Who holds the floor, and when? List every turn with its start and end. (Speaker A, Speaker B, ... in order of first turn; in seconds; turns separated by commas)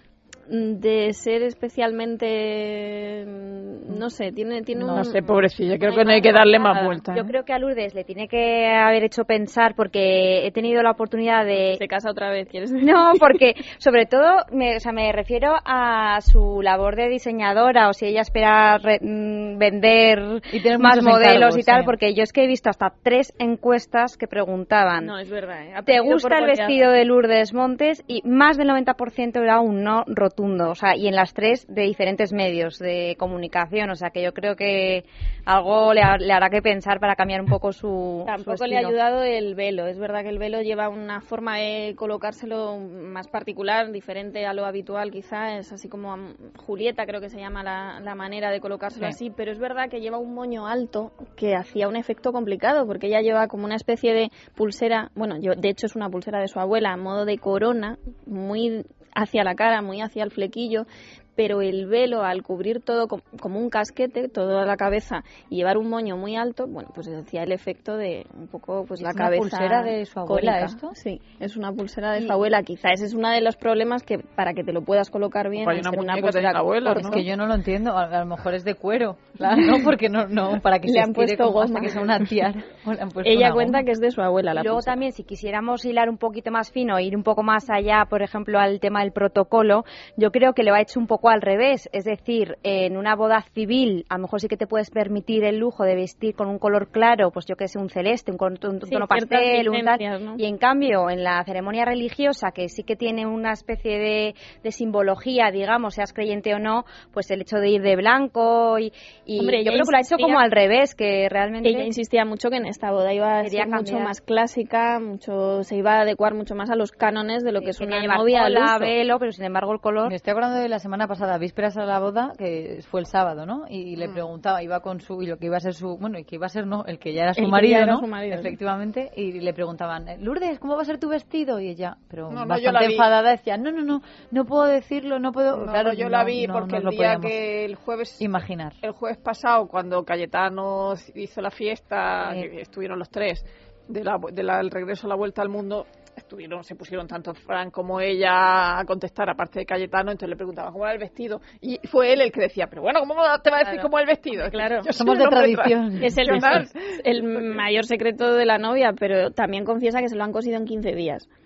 Speaker A: 0.5-5.2, Speaker B: 4.8-5.0, Speaker C: 4.9-7.3, Speaker A: 5.8-7.0, Speaker D: 6.1-6.4, Speaker D: 7.1-11.8, Speaker A: 11.6-13.4, Speaker D: 12.8-25.1, Speaker B: 20.5-21.9, Speaker A: 25.0-26.8, Speaker D: 25.9-38.9, Speaker A: 38.2-77.2, Speaker B: 69.0-71.0, Speaker C: 75.5-77.2, Speaker B: 76.9-83.8, Speaker A: 79.5-79.8, Speaker A: 80.8-82.2, Speaker A: 83.2-85.0, Speaker D: 84.5-111.9, Speaker A: 98.8-100.4, Speaker A: 109.4-110.4, Speaker A: 111.6-118.9, Speaker D: 113.4-114.1, Speaker D: 117.6-120.1, Speaker B: 120.0-137.4, Speaker A: 127.3-128.6, Speaker C: 132.3-133.1, Speaker C: 135.5-138.2, Speaker B: 138.2-138.8, Speaker C: 138.8-157.6, Speaker A: 154.5-154.9, Speaker B: 154.9-156.7, Speaker A: 156.0-161.3